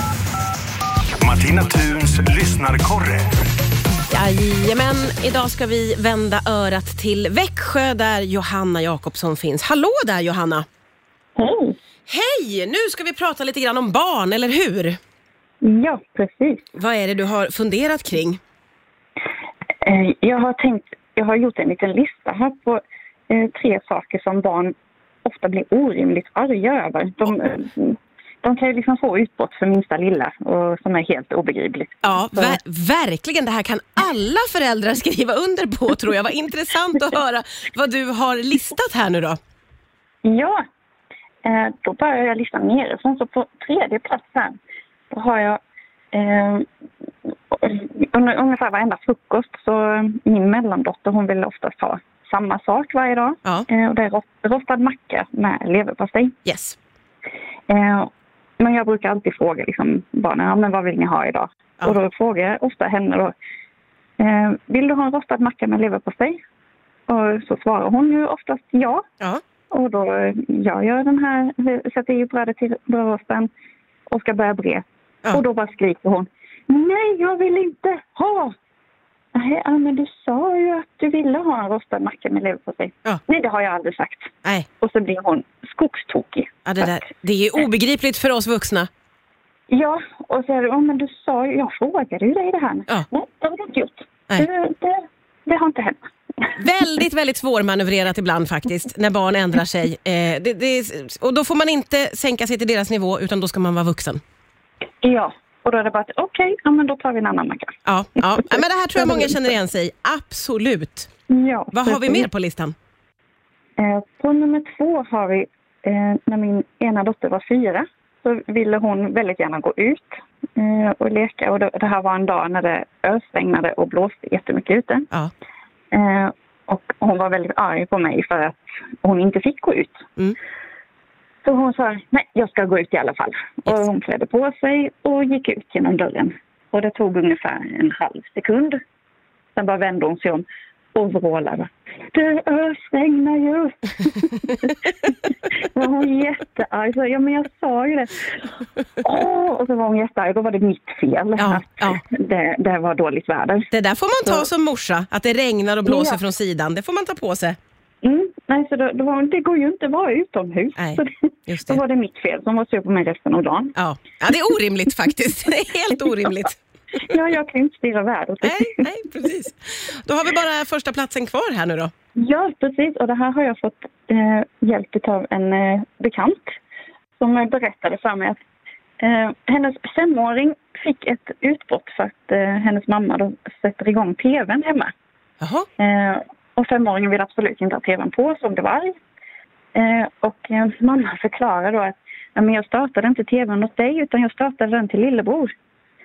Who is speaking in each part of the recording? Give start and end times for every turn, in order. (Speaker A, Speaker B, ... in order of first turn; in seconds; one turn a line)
Speaker A: 1.2-3.3
Speaker B: 4.1-10.7
Speaker C: 11.3-11.8
Speaker B: 12.1-15.0
Speaker C: 15.6-16.6
Speaker B: 16.8-18.4
Speaker C: 19.8-24.7
Speaker C: 25.2-32.6
Speaker B: 32.0-39.4
Speaker C: 40.2-40.6
Speaker C: 41.4-44.5
Speaker C: 45.1-45.6
Speaker C: 46.1-46.7
Speaker C: 47.5-56.4
Speaker B: 56.5-56.8
Speaker C: 57.7-63.3
Speaker C: 64.2-66.4
Speaker C: 67.1-69.0
Speaker C: 69.7-73.5
Speaker C: 74.1-78.5
Speaker C: 79.3-87.0
Speaker B: 86.6-88.9
Speaker C: 89.7-96.5
Speaker B: 96.5-104.2
Speaker C: 105.0-107.8
Speaker B: 107.8-111.1
Speaker C: 109.0-109.3
Speaker C: 111.3-112.3
Speaker B: 111.7-112.7
Speaker C: 113.8-125.1
Speaker C: 125.9-130.1
Speaker C: 131.4-138.8
Speaker C: 139.5-153.7
Speaker B: 151.4-152.0
Speaker B: 153.7-157.6
Speaker C: 155.8-156.2
Speaker C: 158.0-163.7
Speaker B: 160.8-161.8
Speaker B: 163.8-166.6
Speaker C: 167.0-168.9
Speaker B: 168.4-171.9
Speaker C: 172.2-176.6
Speaker C: 177.2-178.4
Speaker C: 179.0-184.9
Speaker B: 185.4-185.7
Speaker C: 185.8-188.9
Speaker C: 189.7-195.5